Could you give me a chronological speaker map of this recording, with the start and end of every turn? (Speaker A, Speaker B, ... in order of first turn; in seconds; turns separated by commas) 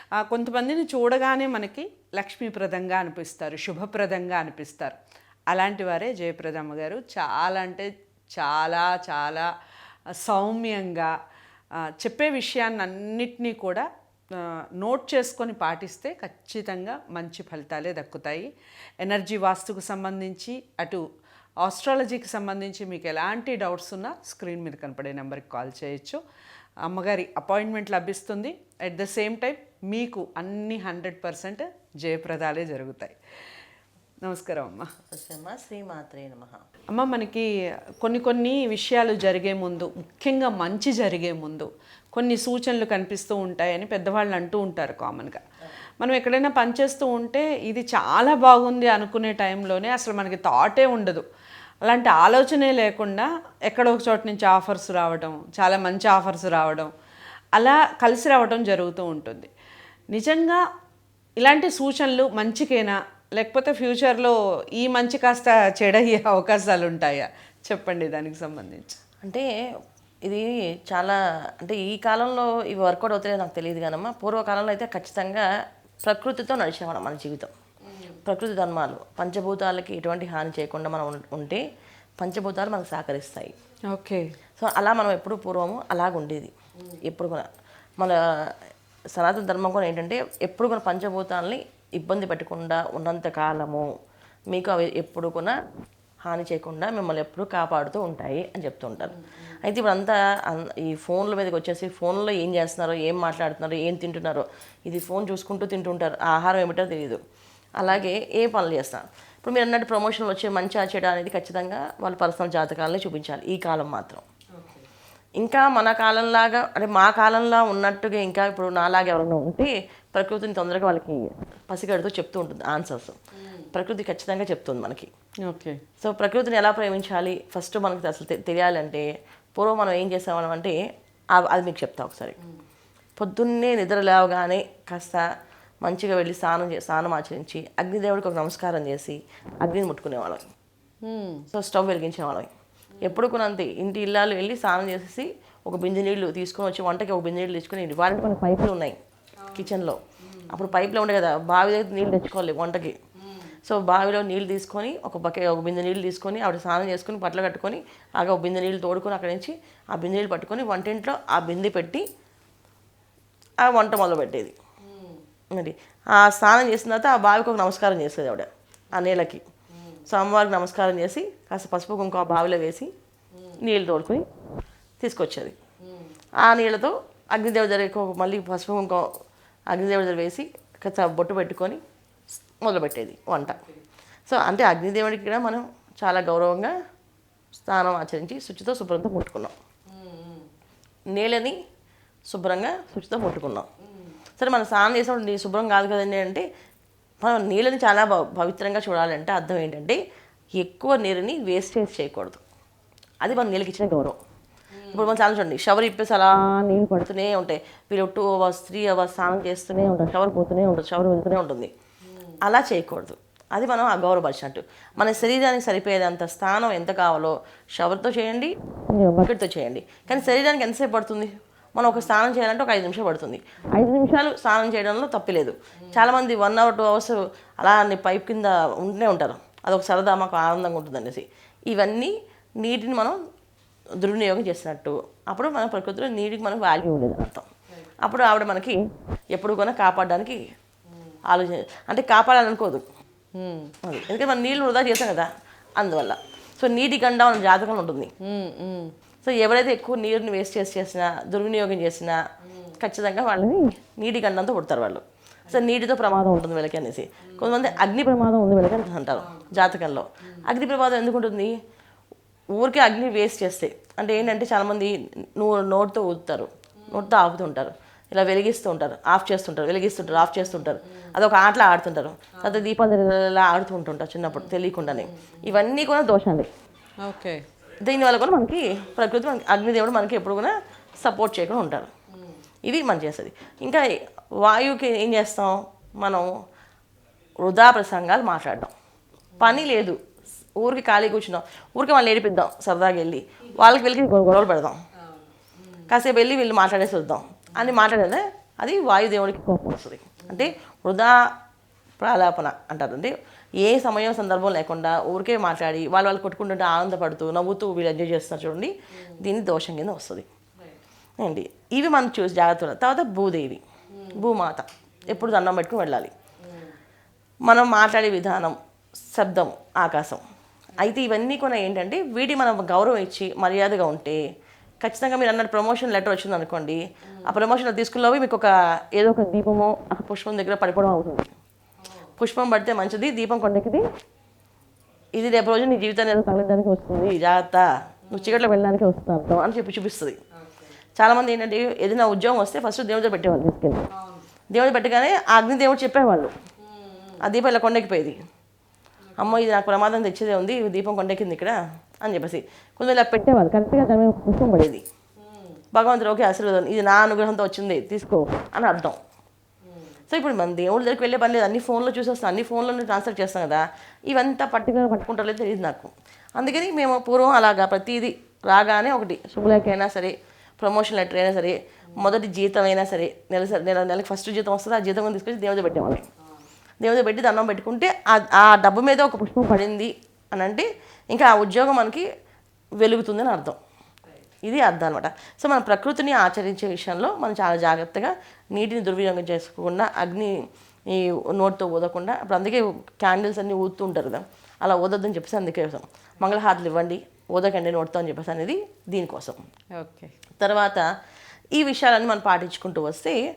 Speaker A: 0.2-5.0, Speaker A: 5.5-9.5, Speaker A: 10.1-11.1, Speaker A: 11.8-18.5, Speaker A: 19.0-21.0, Speaker A: 21.6-26.2, Speaker A: 26.9-33.1, Speaker A: 34.2-34.9, Speaker B: 35.1-36.6, Speaker A: 36.9-37.5, Speaker A: 38.0-45.4, Speaker A: 46.0-51.2, Speaker A: 51.8-56.9, Speaker A: 57.5-59.5, Speaker A: 60.1-60.6, Speaker A: 61.4-69.0, Speaker B: 70.2-75.4, Speaker B: 76.0-77.5, Speaker A: 77.9-78.2, Speaker B: 78.2-81.6, Speaker B: 82.2-83.5, Speaker A: 83.9-84.3, Speaker B: 84.6-86.5, Speaker B: 87.0-87.5, Speaker B: 88.0-88.5, Speaker B: 89.1-93.9, Speaker B: 94.5-95.5, Speaker B: 96.2-107.2, Speaker A: 99.1-99.5, Speaker B: 107.8-114.2, Speaker A: 114.5-114.8, Speaker B: 115.4-123.2, Speaker A: 123.4-123.7, Speaker B: 123.7-125.1, Speaker A: 125.4-125.8, Speaker B: 126.0-130.8, Speaker B: 131.3-132.4, Speaker B: 133.2-135.2, Speaker B: 135.8-140.4, Speaker A: 141.0-141.4, Speaker B: 141.5-142.5, Speaker B: 143.0-148.9, Speaker A: 149.4-149.7, Speaker B: 149.5-150.0, Speaker A: 150.2-150.8, Speaker B: 150.5-153.0, Speaker A: 153.2-153.5, Speaker B: 153.7-162.0, Speaker B: 163.6-164.6, Speaker A: 164.8-165.2, Speaker B: 165.5-169.4, Speaker A: 169.7-170.0, Speaker B: 170.1-172.9, Speaker B: 173.6-174.2, Speaker B: 175.0-175.5, Speaker A: 175.8-176.1, Speaker B: 176.4-179.1, Speaker B: 179.7-181.8, Speaker B: 182.6-183.6, Speaker A: 183.4-183.8, Speaker B: 184.3-186.7, Speaker B: 187.6-189.5, Speaker A: 189.9-190.4, Speaker B: 191.1-191.6, Speaker B: 192.3-193.7, Speaker A: 193.9-194.2, Speaker B: 194.4-196.4, Speaker B: 197.2-200.0, Speaker B: 200.6-202.4, Speaker B: 203.2-204.2, Speaker A: 204.8-205.1, Speaker B: 204.9-211.7, Speaker A: 212.1-212.4, Speaker B: 212.4-233.2, Speaker B: 234.0-237.5, Speaker B: 238.0-238.8, Speaker B: 239.3-240.4, Speaker B: 241.3-242.8, Speaker A: 243.4-243.7, Speaker B: 243.8-248.1, Speaker A: 248.2-248.9, Speaker B: 249.2-252.2, Speaker A: 252.4-252.8, Speaker B: 252.8-261.5, Speaker A: 257.2-257.7, Speaker A: 259.2-259.7, Speaker B: 262.6-276.5, Speaker A: 266.8-267.1, Speaker A: 270.2-270.7, Speaker A: 275.1-275.4, Speaker A: 277.0-277.4, Speaker B: 277.8-281.9, Speaker B: 282.6-283.9, Speaker B: 284.4-286.3, Speaker B: 287.4-288.7, Speaker B: 289.4-290.0, Speaker B: 290.6-294.8, Speaker A: 295.1-295.8, Speaker B: 295.9-301.2, Speaker A: 300.2-300.5, Speaker B: 302.0-310.2, Speaker B: 311.2-313.6, Speaker A: 313.9-314.2, Speaker B: 314.1-316.1, Speaker A: 316.5-316.7, Speaker B: 317.5-318.6, Speaker B: 319.1-320.2, Speaker B: 320.8-324.2, Speaker B: 324.8-331.4, Speaker A: 327.1-327.4, Speaker A: 331.8-332.1, Speaker B: 332.2-333.8, Speaker B: 335.1-340.2, Speaker A: 338.1-338.4, Speaker A: 340.4-340.7, Speaker B: 341.0-343.9, Speaker A: 343.9-344.2, Speaker B: 344.5-346.3, Speaker A: 346.6-347.2, Speaker B: 347.2-348.2, Speaker A: 349.1-349.4, Speaker B: 349.2-354.8, Speaker A: 355.2-355.6, Speaker B: 355.7-359.0, Speaker A: 359.7-359.9, Speaker B: 360.1-376.1, Speaker B: 376.8-382.1, Speaker B: 382.8-383.6, Speaker B: 384.4-390.3, Speaker B: 390.9-399.4, Speaker A: 399.8-400.1, Speaker B: 400.4-400.9, Speaker B: 401.6-403.2